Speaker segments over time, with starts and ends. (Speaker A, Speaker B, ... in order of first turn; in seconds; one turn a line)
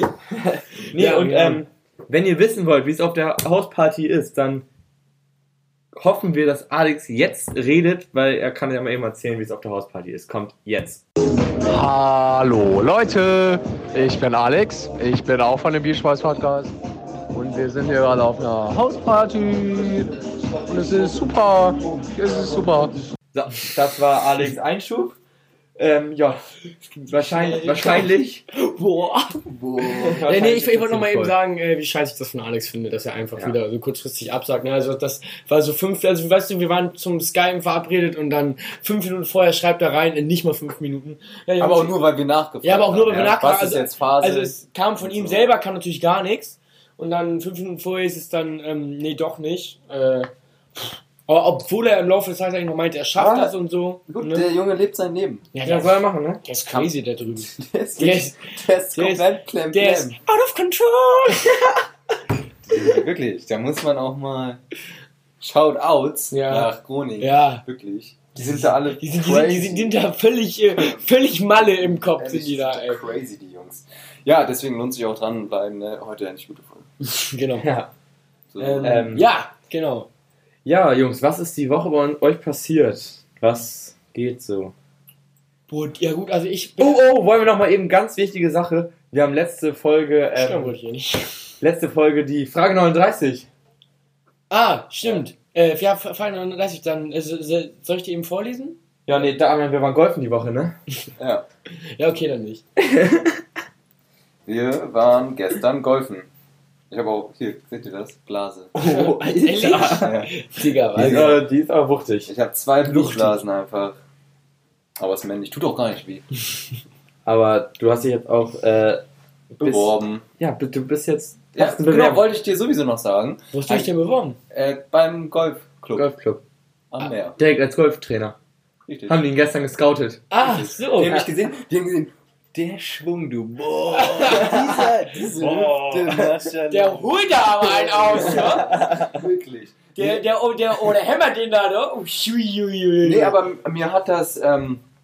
Speaker A: 0.3-4.7
Speaker B: 0.9-1.6
Speaker A: 5.9-11.0
Speaker C: 11.7-16.7
Speaker C: 17.3-20.1
Speaker C: 20.7-22.9
Speaker A: 23.3-25.2
Speaker A: 25.8-26.4
Speaker A: 27.0-28.4
Speaker B: 27.1-42.0
Speaker D: 29.8-30.2
Speaker A: 30.0-31.4
Speaker D: 41.6-45.5
Speaker B: 42.6-54.5
Speaker A: 53.2-53.5
Speaker D: 54.1-55.5
Speaker B: 55.5-61.6
Speaker A: 55.6-56.4
Speaker D: 57.5-60.2
Speaker D: 62.7-64.6
Speaker D: 65.4-70.0
Speaker B: 66.3-67.6
Speaker B: 68.9-73.0
Speaker D: 70.8-71.0
Speaker D: 71.6-76.9
Speaker B: 77.1-77.7
Speaker A: 77.6-77.9
Speaker D: 78.5-79.2
Speaker B: 78.6-80.1
Speaker A: 78.8-79.3
Speaker A: 80.7-84.7
Speaker B: 85.7-87.0
Speaker A: 86.8-90.7
Speaker B: 90.3-91.3
Speaker A: 91.6-93.5
Speaker B: 94.5-98.8
Speaker A: 99.1-100.8
Speaker D: 101.2-101.5
Speaker B: 102.0-102.6
Speaker A: 102.8-103.3
Speaker D: 104.5-106.3
Speaker D: 106.9-108.7
Speaker A: 108.8-110.1
Speaker B: 108.8-111.4
Speaker D: 110.0-110.3
Speaker D: 111.0-111.3
Speaker A: 111.0-112.3
Speaker D: 112.3-114.0
Speaker B: 112.9-113.4
Speaker D: 115.0-116.3
Speaker A: 117.2-122.3
Speaker D: 119.6-120.2
Speaker D: 121.5-123.9
Speaker B: 123.5-124.4
Speaker D: 124.5-126.1
Speaker A: 126.0-126.4
Speaker D: 126.9-127.4
Speaker A: 127.4-128.4
Speaker D: 128.9-129.2
Speaker A: 129.1-130.2
Speaker B: 130.3-131.2
Speaker D: 130.4-140.2
Speaker B: 133.9-134.6
Speaker A: 135.4-136.4
Speaker B: 136.7-138.7
Speaker A: 138.2-139.2
Speaker B: 140.0-143.4
Speaker D: 143.0-144.8